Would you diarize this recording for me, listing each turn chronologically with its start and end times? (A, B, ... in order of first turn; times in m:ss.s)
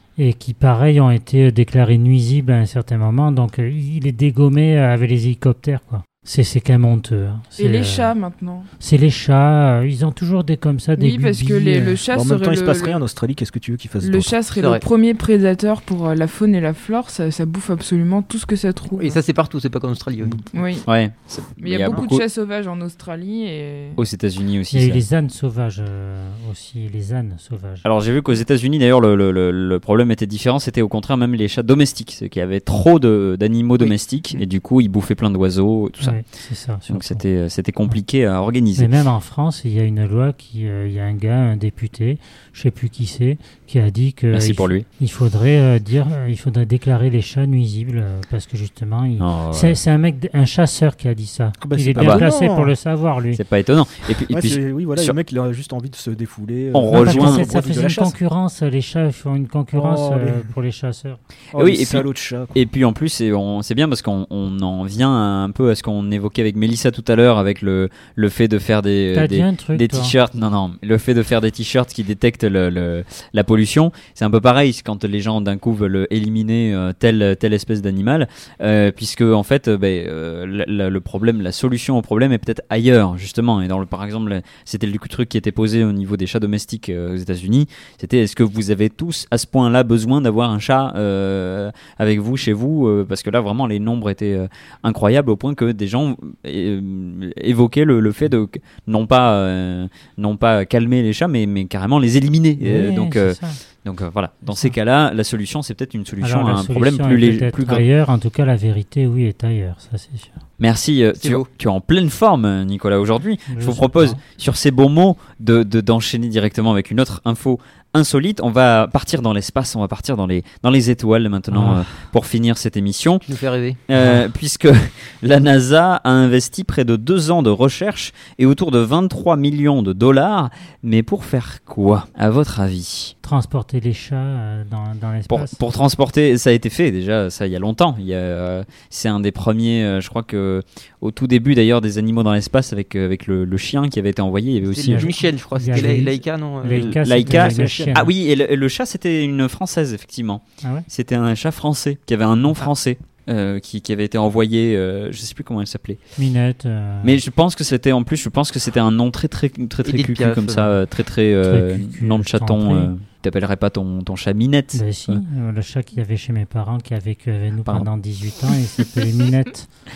0:00.2-0:08.2 A
0:07.6-0:08.7 B
0:08.8-0:12.0 A
0:11.0-0:13.0 B
0:12.1-0:14.4 C
0:14.0-0:19.2 B
0:14.6-0:14.8 D
0:19.0-0:20.4 D
0:20.5-0:20.9 B
0:20.9-0:22.2 E
0:21.6-0:24.0 B
0:24.0-0:25.0 E
0:24.7-0:27.9 A
0:27.8-0:36.2 E
0:36.0-0:37.2 A
0:36.9-0:38.9 E
0:38.8-0:53.4 A
0:44.3-0:44.9 E
0:49.2-0:49.8 E
0:51.6-0:52.7 C
0:52.0-0:52.3 E
0:53.3-0:55.2 E
0:54.3-0:58.2 C
0:56.7-0:57.5 E
0:56.9-1:01.2 A
0:59.7-1:00.5 C
1:01.5-1:02.6 C
1:01.6-1:47.8 E
1:09.1-1:10.2 A
1:42.6-1:43.6 A
1:44.5-1:44.8 A
1:46.2-1:50.3 A
1:50.6-2:03.3 E
1:51.2-1:51.5 D
1:53.5-1:54.2 A
2:01.5-2:01.9 A
2:03.3-2:03.8 D
2:03.9-2:13.1 E
2:03.9-2:04.3 A
2:13.2-2:15.6 A
2:15.3-2:25.1 E
2:24.7-2:27.8 D
2:24.9-2:28.1 A
2:25.7-2:26.1 E
2:26.7-2:36.0 E
2:27.3-2:28.0 C
2:36.2-2:37.2 A
2:37.0-2:45.2 E
2:39.8-2:40.8 D
2:41.4-2:42.9 A
2:44.7-2:49.7 A